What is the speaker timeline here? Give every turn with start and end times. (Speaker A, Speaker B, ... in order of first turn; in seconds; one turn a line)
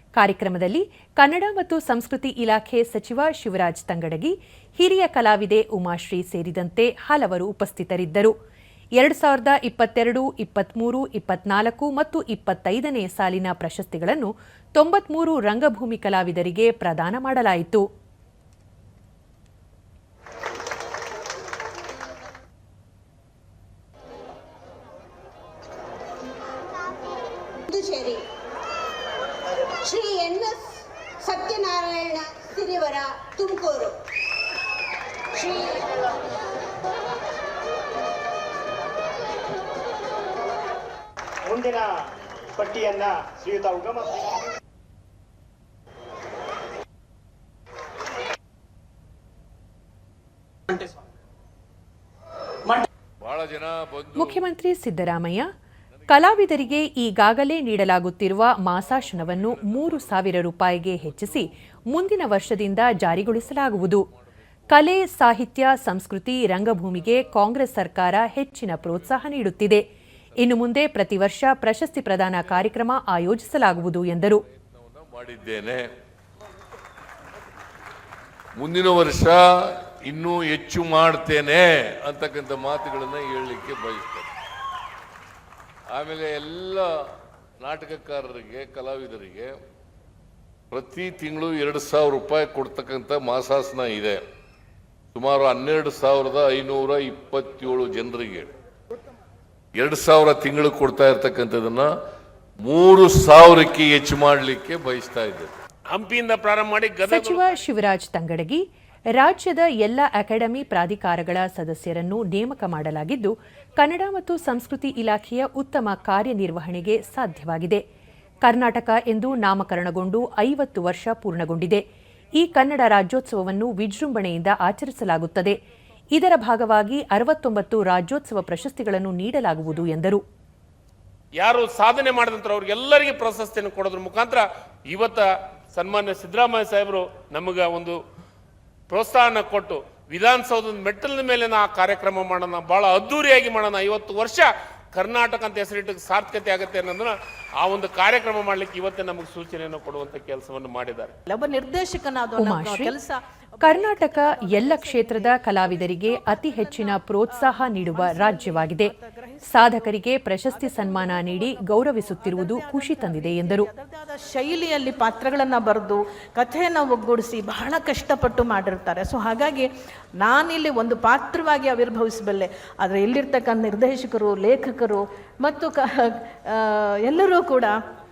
Speaker A: 0.1-8.3
Speaker A: 9.0-17.8
Speaker B: 27.7-28.2
Speaker B: 29.8-34.0
Speaker B: 35.3-36.0
Speaker C: 41.5-41.9
Speaker C: 42.6-44.1
Speaker D: 53.2-54.4
Speaker A: 54.1-55.5
Speaker A: 56.1-64.0
Speaker D: 58.8-60.3
Speaker D: 61.2-61.5
Speaker D: 62.2-63.7
Speaker A: 64.7-69.8
Speaker A: 70.4-74.4
Speaker D: 74.5-75.9
Speaker D: 78.5-84.3
Speaker D: 85.9-89.6
Speaker D: 90.7-94.2
Speaker D: 95.1-98.5
Speaker D: 99.7-101.9
Speaker D: 102.6-105.5
Speaker E: 105.9-107.4
Speaker A: 107.1-117.8
Speaker A: 118.4-121.8
Speaker A: 122.4-125.6
Speaker A: 126.1-130.2
Speaker E: 131.4-138.0
Speaker E: 138.9-151.1
Speaker F: 151.3-159.9
Speaker A: 152.4-152.9
Speaker A: 153.6-158.9
Speaker A: 159.5-163.7
Speaker F: 160.5-177.8